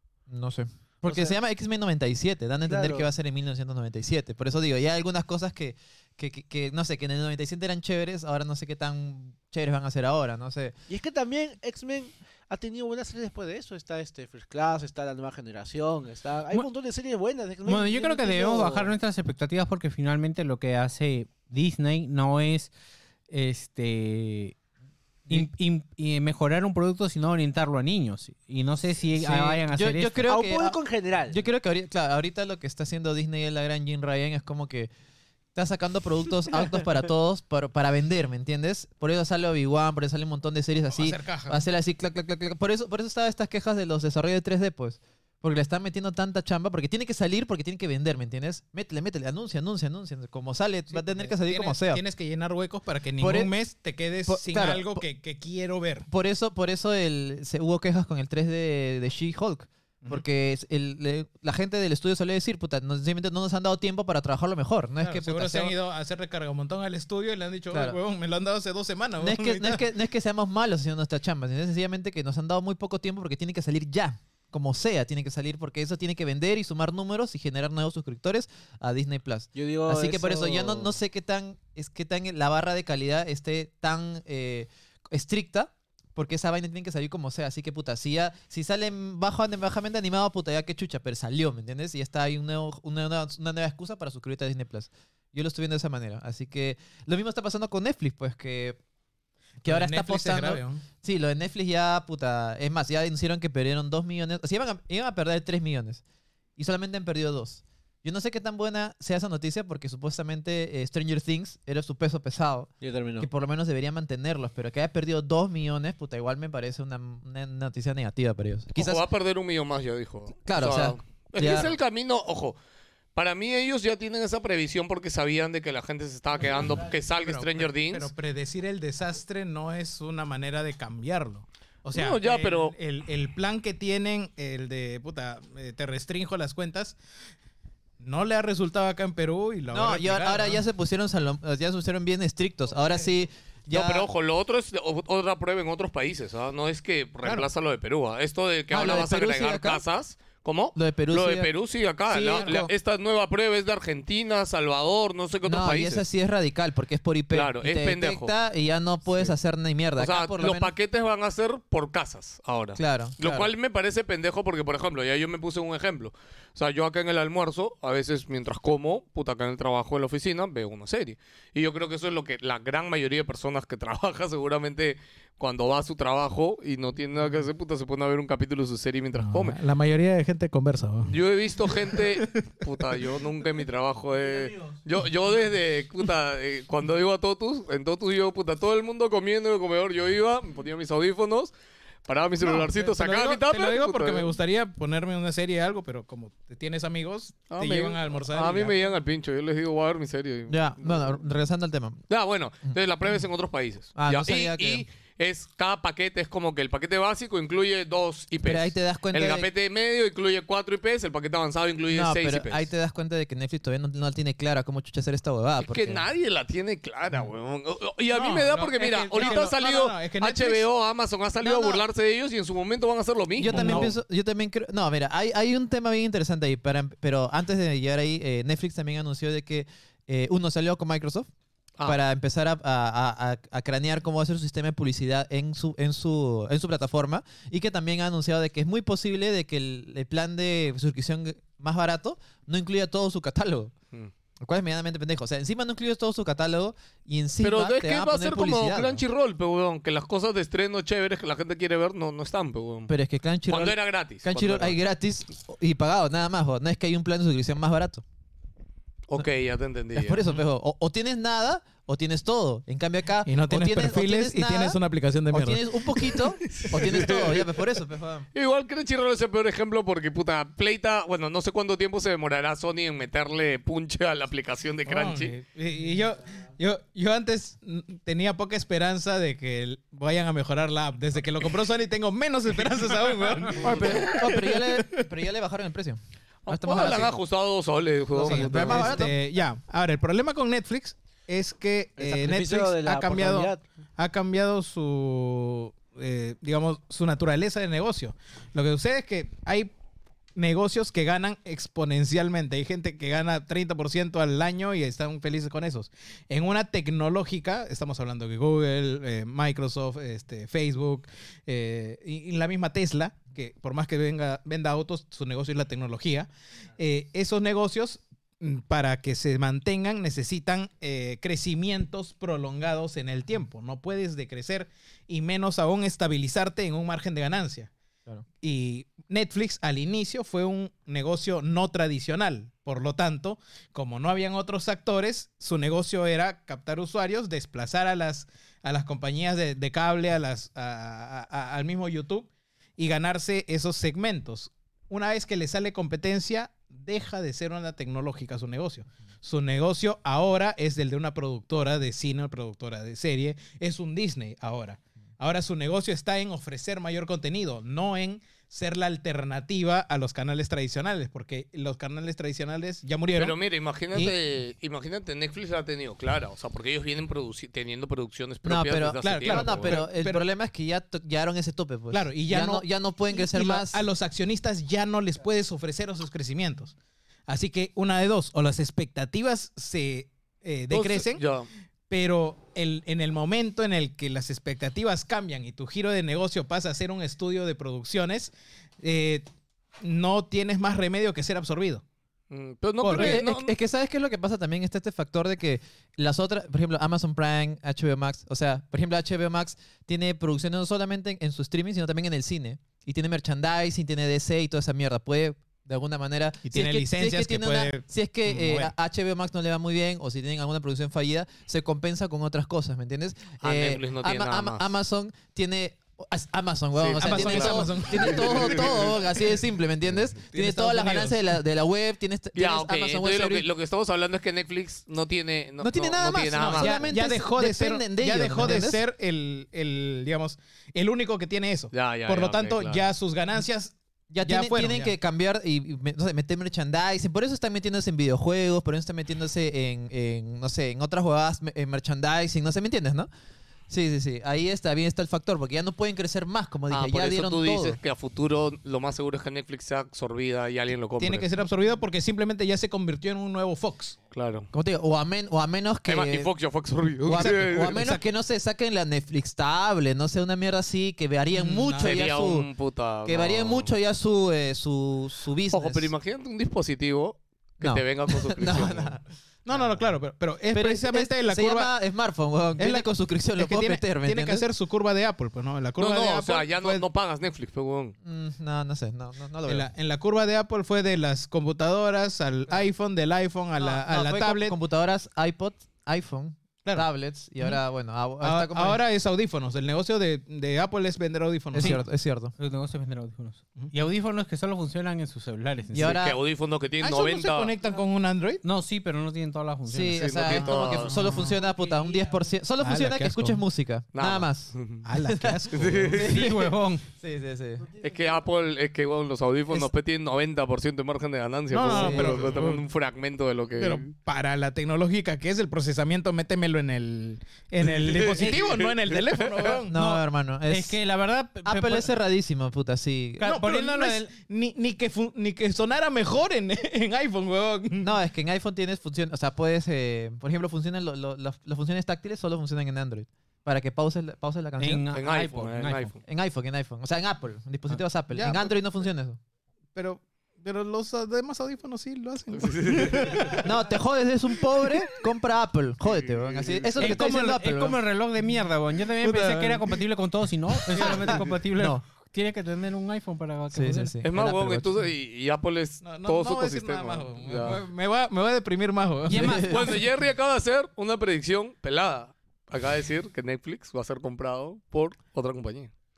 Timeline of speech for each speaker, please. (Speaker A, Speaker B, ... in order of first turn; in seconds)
Speaker A: 0.3-10.8, 29.1-34.9, 35.5-52.0, 53.2-53.5, 54.3-55.0, 56.1-65.8, 67.7-68.0, 69.2-98.8, 99.6-106.0, 106.6-119.0, 120.5-121.8, 139.7-144.1, 148.7-149.8, 150.8-151.5, 152.1-152.7, 155.4-160.7, 162.8-163.5, 200.5-202.0, 204.0-204.9, 208.4-209.5, 211.9-216.0, 221.4-221.8, 223.4-231.3, 231.8-243.7, 244.4-249.1, 252.9-258.0, 259.9-264.8, 265.3-268.3, 283.6-287.2, 288.2-289.1, 368.4-373.8, 392.9-423.5, 425.6-428.8, 434.1-443.1, 443.7-447.8, 454.5-456.3, 457.1-462.5, 463.0-465.9, 467.6-469.9, 470.5-474.5, 478.0-479.7, 483.6-488.8, 491.5-492.3, 495.7-496.2, 499.7-507.7, 511.7-512.3, 519.7-520.8, 521.5-523.4, 527.8-534.9, 536.0-539.2, 543.4-547.8, 551.6-551.8, 553.5-554.8, 559.1-559.7
Speaker B: 1.1-1.4, 2.7-3.1, 10.9-18.9, 30.3-31.4, 79.5-81.0, 112.8-113.3, 184.2-184.8, 292.0-293.6
Speaker C: 17.7-22.7, 23.3-24.6, 25.3-30.3, 491.6-491.8, 492.4-496.0, 498.4-500.8, 506.0-506.9, 518.2-518.4, 519.7-521.9, 523.2-524.1, 534.6-536.0, 546.8-554.0, 559.1-559.7
Speaker D: 40.9-41.6, 50.9-56.1, 65.0-69.8, 99.6-100.8, 127.1-137.0, 138.0-140.6, 152.2-152.6, 179.2-183.0, 192.4-198.8, 218.1-220.7, 223.5-223.9, 263.3-265.6, 274.9-285.1, 288.2-299.7, 300.4-327.7, 328.4-363.4, 369.0-370.2, 371.9-376.8, 377.3-381.2, 381.9-389.3, 389.8-391.8, 392.8-393.2, 406.4-408.7, 417.0-419.1, 420.3-421.2, 426.4-434.9, 451.0-454.0, 457.2-458.0, 461.3-462.0, 469.5-471.7, 472.6-476.9, 479.5-484.6, 488.2-491.8, 496.8-498.4, 502.6-503.4, 504.9-506.1, 511.5-512.6, 513.6-519.8, 523.2-527.9, 538.1-538.5, 539.8-543.5, 549.0-549.7, 550.7-551.2, 555.8-559.5
Speaker E: 118.8-122.6, 123.2-128.1, 131.9-132.8, 143.7-156.0, 157.3-158.3, 160.0-179.6, 181.1-191.5, 192.1-194.3, 197.5-201.1, 202.1-212.7, 215.6-223.9, 247.4-252.9, 253.5-254.8, 259.1-260.4, 266.5-267.6, 268.3-275.4, 286.5-289.1, 363.1-369.8, 380.7-381.5, 392.3-393.5, 413.4-414.7, 416.8-418.8, 422.4-426.9, 431.7-432.9, 446.7-451.3, 454.1-454.5, 455.9-457.9, 461.8-463.7, 465.5-469.0, 475.8-477.9, 495.8-497.5, 500.0-501.1, 503.9-504.9, 505.5-506.1, 507.8-513.9, 517.6-519.6, 534.9-536.0, 542.3-543.4, 546.1-547.0, 554.0-557.6, 559.5-565.7